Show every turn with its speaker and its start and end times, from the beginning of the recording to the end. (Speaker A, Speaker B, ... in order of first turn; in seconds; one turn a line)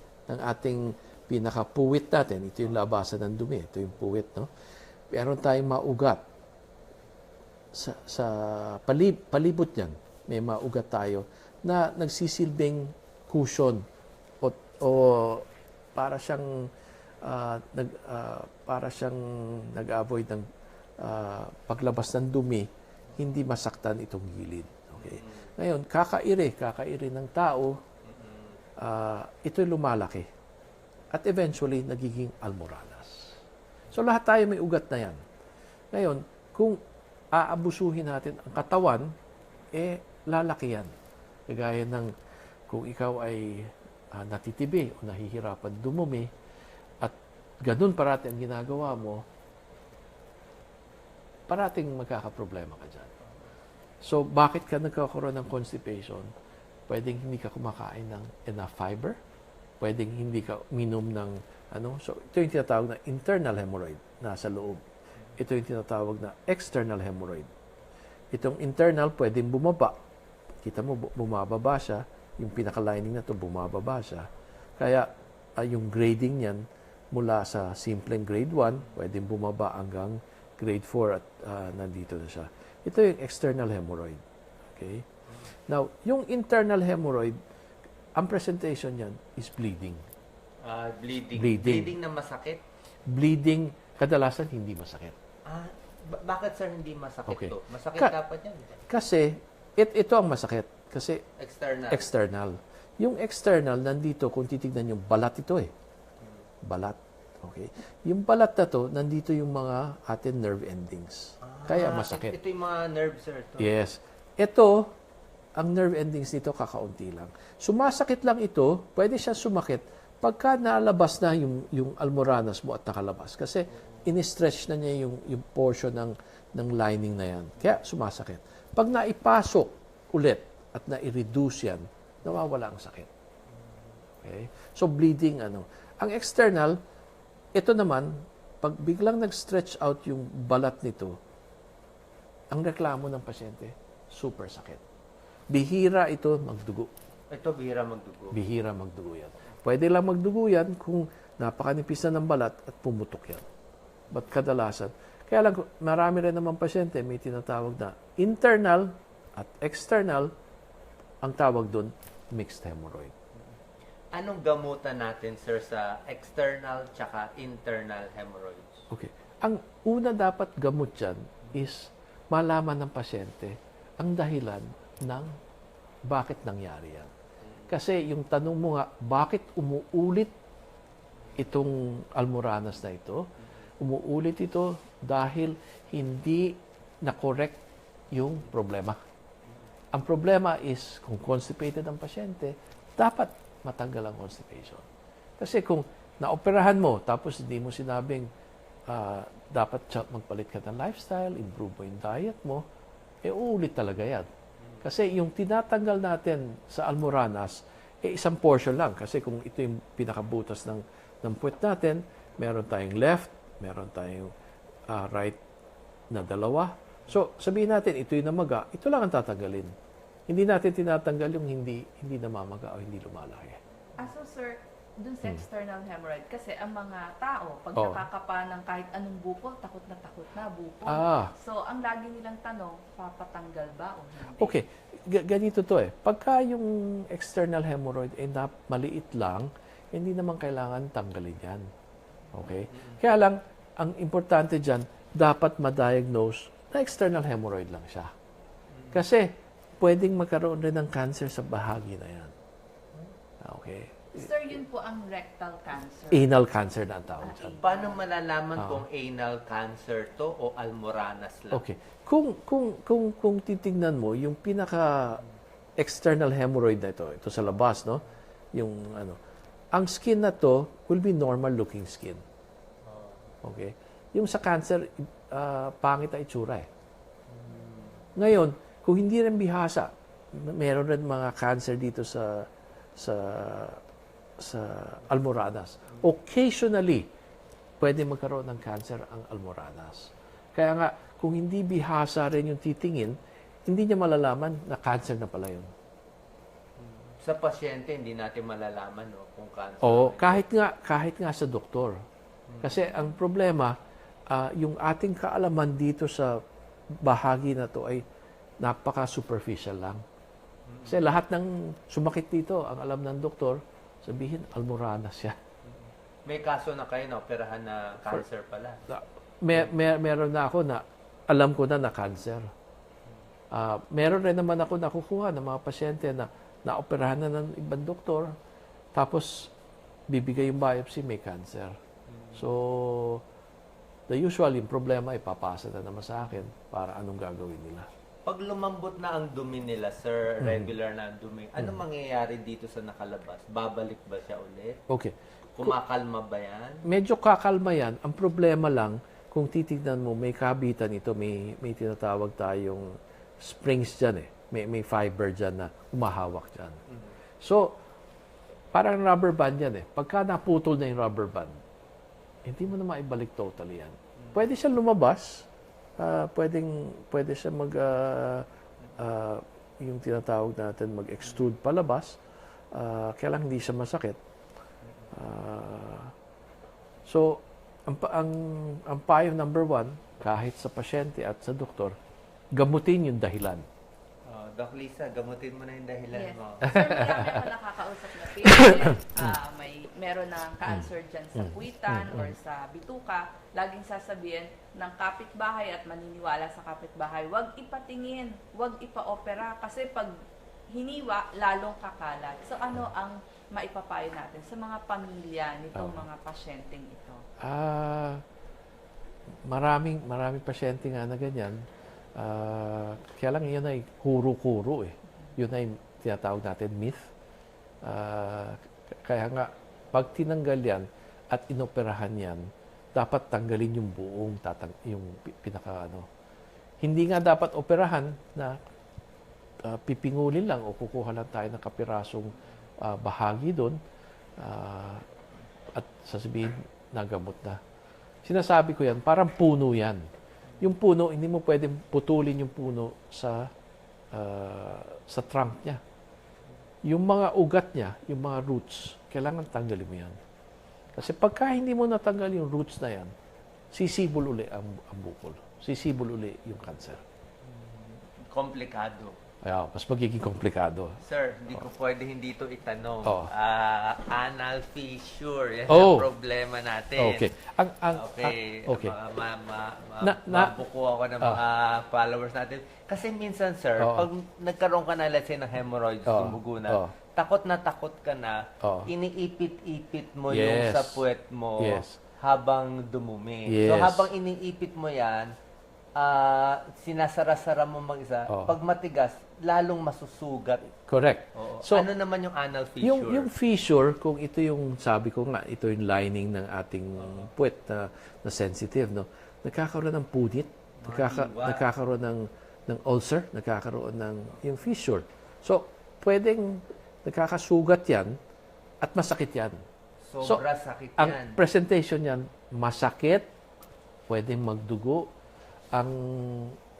Speaker A: 0.3-4.5
Speaker A: 5.1-6.2
Speaker A: 7.7-13.8
Speaker A: 14.4-16.7
Speaker A: 17.2-20.4
Speaker A: 21.0-27.8
Speaker B: 25.0-25.5
Speaker B: 28.1-28.6
Speaker A: 28.8-30.3
Speaker A: 31.1-33.4
Speaker A: 33.9-35.2
Speaker A: 35.9-36.8
Speaker A: 37.3-39.1
Speaker A: 39.7-40.9
Speaker A: 41.5-42.1
Speaker A: 42.7-46.3
Speaker A: 47.0-49.2
Speaker A: 51.5-53.1
Speaker A: 54.0-56.3
Speaker A: 56.9-59.2
Speaker A: 59.8-64.8
Speaker A: 65.3-67.5
Speaker A: 68.3-70.0
Speaker A: 70.6-74.3
Speaker A: 74.8-84.2
Speaker A: 84.8-85.0
Speaker A: 85.7-87.3
Speaker A: 88.2-90.0
Speaker B: 90.6-92.6
Speaker A: 91.3-91.9
Speaker A: 93.1-95.2
Speaker B: 95.5-98.8
Speaker A: 97.3-98.1
Speaker A: 98.9-101.2
Speaker B: 101.4-102.1
Speaker A: 101.9-105.7
Speaker A: 106.6-112.4
Speaker B: 111.4-113.7
Speaker A: 113.6-114.9
Speaker A: 115.6-133.1
Speaker A: 134.2-136.8
Speaker A: 137.5-141.2
Speaker A: 142.5-144.8
Speaker A: 145.5-146.9
Speaker B: 147.3-148.4
Speaker A: 148.3-153.5
Speaker A: 154.1-160.3
Speaker A: 161.2-163.1
Speaker B: 164.1-168.8
Speaker A: 168.9-175.3
Speaker A: 176.1-177.1
Speaker B: 177.4-177.7
Speaker A: 177.7-180.3
Speaker A: 181.3-183.2
Speaker A: 183.8-187.6
Speaker A: 188.1-189.0
Speaker A: 189.9-194.8
Speaker A: 195.4-198.3
Speaker A: 198.9-202.6
Speaker A: 203.2-204.3
Speaker A: 204.8-214.3
Speaker A: 214.9-215.4
Speaker A: 216.1-219.7
Speaker A: 220.3-223.6
Speaker C: 224.0-234.6
Speaker A: 227.8-228.1
Speaker A: 230.8-231.3
Speaker A: 234.3-241.6
Speaker A: 242.3-248.1
Speaker B: 242.7-243.0
Speaker B: 248.7-249.0
Speaker A: 248.9-252.3
Speaker A: 253.4-254.6
Speaker C: 254.1-256.3
Speaker A: 256.1-257.6
Speaker C: 257.2-258.0
Speaker B: 257.6-261.6
Speaker A: 258.6-258.8
Speaker A: 261.5-265.2
Speaker A: 265.8-268.0
Speaker A: 268.5-269.2
Speaker A: 269.7-272.2
Speaker B: 272.9-273.3
Speaker A: 273.4-276.7
Speaker B: 277.3-278.1
Speaker A: 278.1-283.8
Speaker A: 284.4-287.1
Speaker A: 287.8-295.7
Speaker B: 296.8-300.4
Speaker A: 299.8-302.0
Speaker B: 302.5-302.7
Speaker A: 302.6-303.7
Speaker A: 304.3-306.3
Speaker A: 307.0-308.0
Speaker A: 308.6-310.0
Speaker B: 310.7-311.0
Speaker A: 310.9-315.4
Speaker B: 315.6-318.8
Speaker A: 318.9-322.5
Speaker A: 323.5-328.3
Speaker A: 328.9-329.5
Speaker A: 330.1-331.7
Speaker B: 332.1-332.4
Speaker A: 332.3-333.2
Speaker A: 334.1-337.9
Speaker B: 338.2-344.8
Speaker A: 340.4-340.7
Speaker B: 345.5-346.8
Speaker A: 346.9-356.8
Speaker A: 357.4-357.8
Speaker A: 358.7-361.6
Speaker A: 362.4-365.5
Speaker A: 366.0-368.5
Speaker A: 369.0-372.2
Speaker A: 372.7-374.2
Speaker A: 375.1-376.1
Speaker A: 377.1-381.9
Speaker A: 382.5-383.6
Speaker B: 384.2-386.8
Speaker C: 386.1-400.1
Speaker A: 386.6-387.5
Speaker A: 388.4-389.4
Speaker A: 390.6-392.3
Speaker C: 400.7-407.2
Speaker A: 405.7-406.1
Speaker A: 407.4-408.2
Speaker A: 409.4-411.6
Speaker A: 412.1-417.1
Speaker A: 417.8-422.4
Speaker A: 422.9-426.1
Speaker A: 426.8-428.6
Speaker A: 429.6-433.8
Speaker A: 434.4-435.1
Speaker A: 435.7-437.6
Speaker A: 438.2-440.0
Speaker A: 440.6-443.5
Speaker A: 444.1-445.8
Speaker A: 446.8-450.2
Speaker A: 450.9-453.1
Speaker A: 453.7-457.0
Speaker B: 457.4-459.2
Speaker A: 459.4-461.0
Speaker B: 461.0-467.3
Speaker A: 463.0-463.3
Speaker A: 465.7-466.1
Speaker A: 466.9-468.9
Speaker B: 467.9-485.3
Speaker A: 470.0-470.6
Speaker A: 473.8-474.1
Speaker A: 476.1-476.9
Speaker A: 478.6-478.9
Speaker A: 480.3-481.0
Speaker A: 481.6-482.0
Speaker A: 483.5-484.1
Speaker B: 485.9-490.7
Speaker A: 488.3-488.6
Speaker A: 490.9-491.9
Speaker B: 491.3-493.3
Speaker A: 492.8-508.2
Speaker B: 497.0-497.3
Speaker B: 500.8-501.7
Speaker A: 508.8-509.6
Speaker B: 510.1-511.4
Speaker A: 511.0-513.2
Speaker A: 514.1-515.1
Speaker A: 515.7-516.6